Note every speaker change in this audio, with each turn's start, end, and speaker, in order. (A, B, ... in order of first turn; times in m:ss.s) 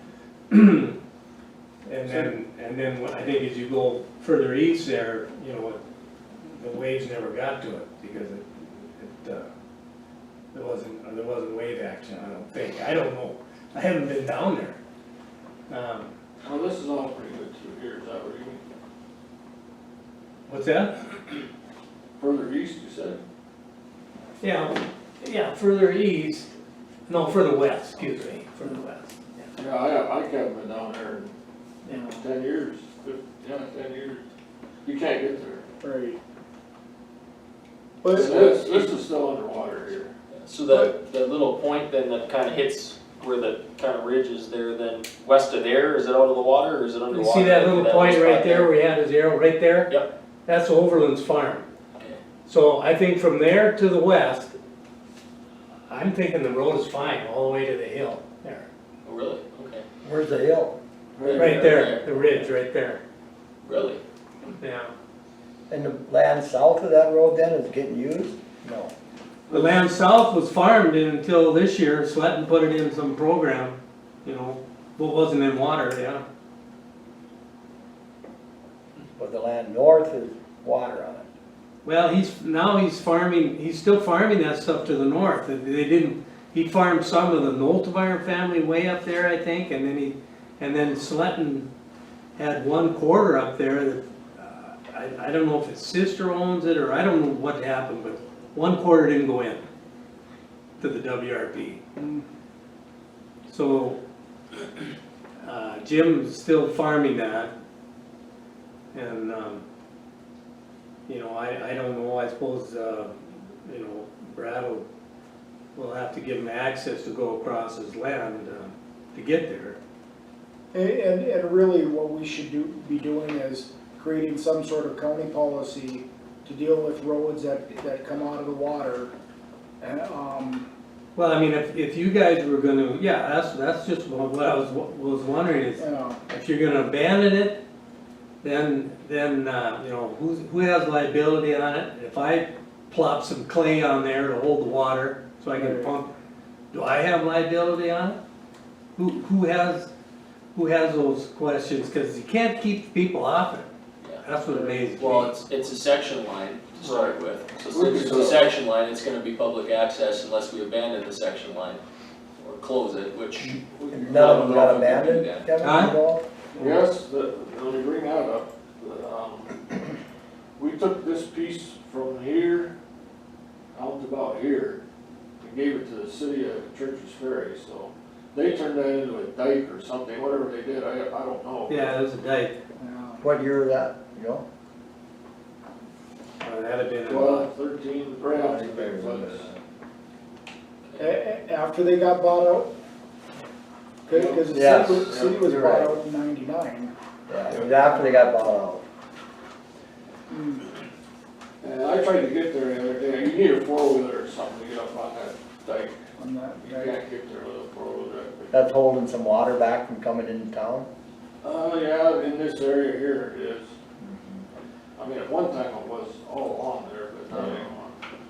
0:00.5-0:01.0 A
0:01.9-0:05.8 A
0:06.4-0:09.5 A
0:10.5-0:14.8 A
0:15.7-0:16.1 A
0:16.4-0:18.6 B
0:20.5-0:20.9 A
0:22.2-0:23.2 B
0:24.4-0:26.5 A
0:27.1-0:29.4 A
0:29.6-0:31.3 B
0:31.8-0:32.2 C
0:31.9-0:34.2 B
0:34.8-0:35.6 B
0:35.8-0:36.2 C
0:38.0-0:38.8 C
0:38.1-0:40.1 B
0:40.4-0:48.7 D
0:47.1-0:49.9 A
0:50.4-0:51.7 A
0:52.4-0:54.6 A
0:55.9-0:58.7 A
0:59.0-0:59.8 D
1:00.0-1:00.8 E
1:01.2-1:01.9 B
1:01.2-1:02.5 D
1:01.4-1:03.0 A
1:03.6-1:04.0 D
1:04.6-1:04.9 A
1:05.7-1:08.9 E
1:09.5-1:16.2 A
1:19.2-1:21.3 E
1:21.8-1:31.7 A
1:32.4-1:39.6 A
1:40.8-1:41.8 A
1:42.0-1:42.2 C
1:43.5-1:44.0 A
1:45.4-1:47.5 A
1:48.9-1:49.6 A
1:51.1-1:54.8 A
1:55.7-1:59.8 A
2:00.7-2:09.1 C
2:09.8-2:10.7 C
2:11.2-2:17.6 A
2:15.8-2:16.2 C
2:18.4-2:26.1 A
2:25.5-2:25.9 C
2:26.7-2:28.2 A
2:28.9-2:29.9 A
2:30.5-2:33.7 A
2:34.2-2:35.3 A
2:34.5-2:34.8 C
2:34.9-2:41.8 D
2:36.8-2:37.2 B
2:37.7-2:38.5 B
2:42.4-2:45.5 D
2:43.9-2:46.2 E
2:43.9-2:44.2 B
2:45.6-2:45.9 A
2:46.6-2:49.7 B
2:50.6-2:52.7 B
2:53.7-2:54.8 B
2:55.4-3:01.9 B
3:01.7-3:02.6 A
3:02.8-3:03.2 C
3:03.2-3:04.4 E
3:06.4-3:07.5 A
3:07.0-3:09.5 B
3:08.4-3:09.5 E
3:10.8-3:11.2 D
3:11.0-3:12.7 C
3:14.1-3:15.4 B
3:14.1-3:16.9 C
3:14.5-3:16.0 E
3:17.3-3:18.8 E
3:17.5-3:18.1 C
3:20.3-3:20.7 C
3:21.6-3:26.0 B
3:26.2-3:27.0 C
3:26.6-3:28.6 B
3:28.5-3:30.9 E
3:31.4-3:33.7 B
3:34.0-3:34.4 E
3:35.0-3:38.0 B
3:37.3-3:37.7 E